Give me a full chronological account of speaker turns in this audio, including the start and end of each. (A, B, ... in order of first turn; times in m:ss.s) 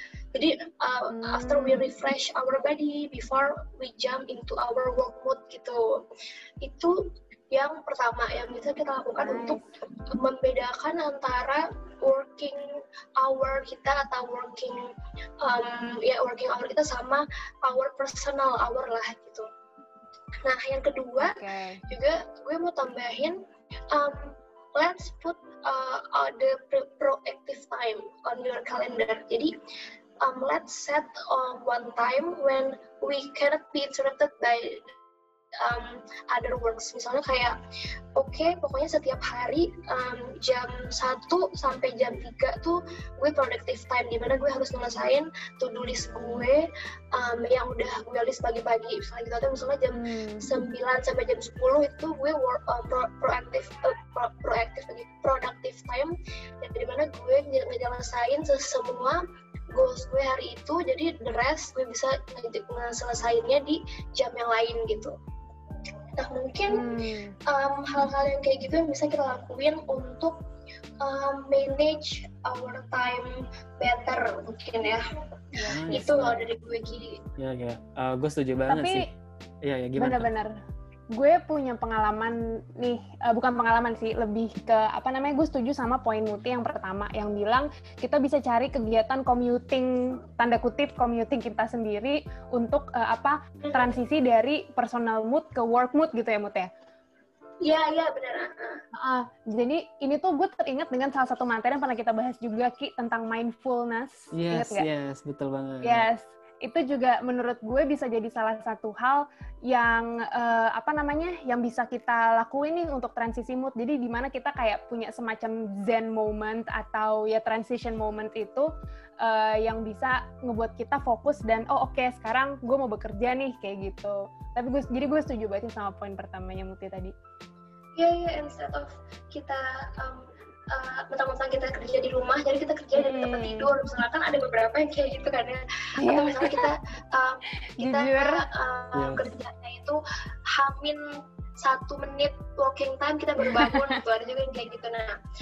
0:00.3-0:06.0 A
0:01.1-0:01.9 B
0:06.6-0:07.0 A
0:07.5-0:12.6 A
0:09.2-0:09.7 B
0:13.2-0:14.8 A
0:15.4-0:19.5 A
0:20.4-0:21.4 A
0:21.2-0:21.8 B
0:21.9-0:23.4 A
0:23.9-0:29.5 A
0:30.2-0:34.9 A
0:35.6-0:37.6 A
0:38.2-0:59.2 A
0:49.9-0:50.5 B
0:59.7-1:05.1 A
1:06.2-1:10.4 A
1:06.7-1:07.4 B
1:11.0-1:15.1 A
1:15.6-1:16.0 B
1:15.7-1:16.5 C
1:15.8-1:17.2 A
1:17.4-1:19.0 C
1:18.7-1:19.0 B
1:19.6-1:20.3 C
1:20.0-1:20.5 B
1:21.1-1:36.7 B
1:37.6-1:38.8 A
1:39.0-1:44.9 B
1:44.3-1:46.1 C
1:45.8-1:58.7 B
1:59.2-2:07.1 B
2:08.0-2:21.0 A
2:13.0-2:13.7 B
2:16.0-2:16.7 B
2:17.8-2:18.4 B
2:18.9-2:19.3 C
2:21.6-2:25.2 A
2:23.5-2:23.9 B